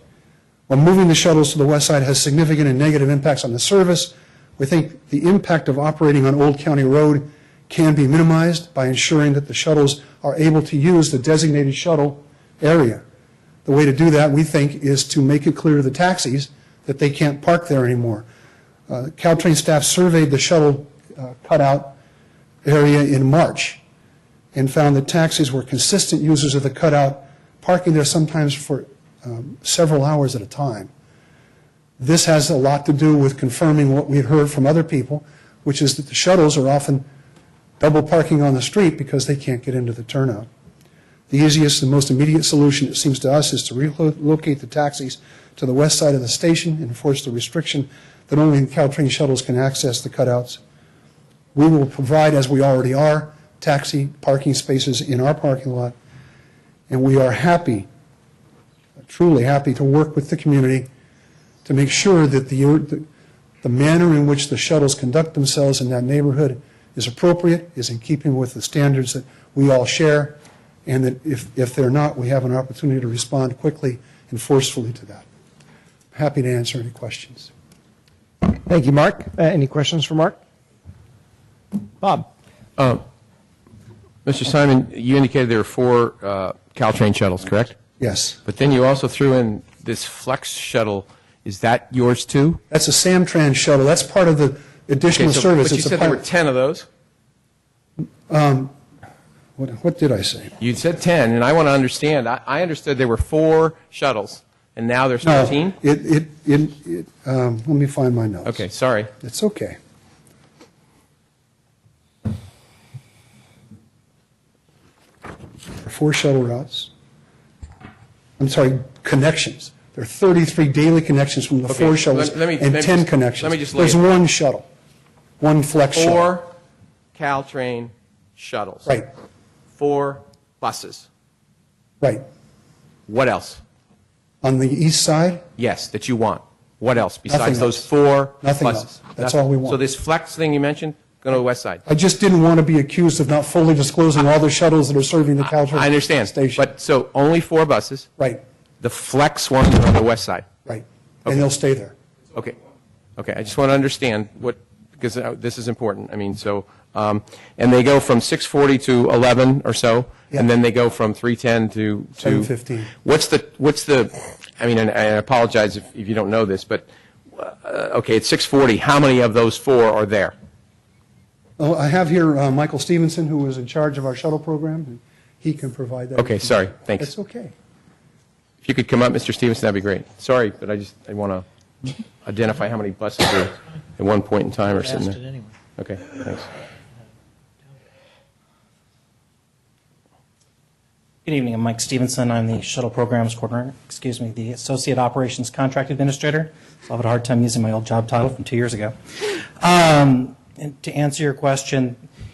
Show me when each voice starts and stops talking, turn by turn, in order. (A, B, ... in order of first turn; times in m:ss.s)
0:00.7-0:13.0 A
0:13.6-0:18.3 A
0:18.9-0:22.0 A
0:22.6-0:23.8 A
0:24.5-0:30.9 A
0:32.0-0:37.1 A
0:37.8-0:40.5 A
0:41.3-0:50.6 A
0:51.5-0:56.0 A
0:56.9-0:57.9 A
0:59.1-1:00.9 A
1:01.6-1:03.1 A
1:03.6-1:15.3 A
1:16.1-1:17.5 A
1:18.4-1:20.4 B
1:22.0-1:22.3 B
1:22.8-1:23.0 C
1:24.2-1:27.8 C
1:28.0-1:28.4 A
1:28.4-1:32.6 C
1:32.7-1:36.2 A
1:35.1-1:36.9 C
1:38.3-1:38.7 A
1:39.6-1:40.6 A
1:40.6-1:45.8 C
1:45.2-1:48.6 A
1:48.4-1:49.1 C
1:49.2-1:49.8 A
1:55.8-1:56.9 A
1:58.4-2:04.7 A
2:01.7-2:04.0 C
2:05.4-2:06.4 A
2:05.9-2:06.5 C
2:07.2-2:08.9 C
2:09.8-2:11.1 C
2:13.1-2:13.6 C
2:14.4-2:15.4 A
2:15.6-2:21.8 C
2:17.3-2:17.9 A
2:18.4-2:19.8 A
2:21.9-2:26.7 A
2:25.5-2:28.1 C
2:28.8-2:30.5 C
2:30.7-2:32.0 A
2:33.2-2:42.5 C
2:42.2-2:42.9 A
2:43.0-2:50.3 C
2:51.6-2:57.5 A
2:56.2-2:57.1 C
2:58.6-3:05.2 C
3:05.8-3:06.5 C
3:11.2-3:22.0 D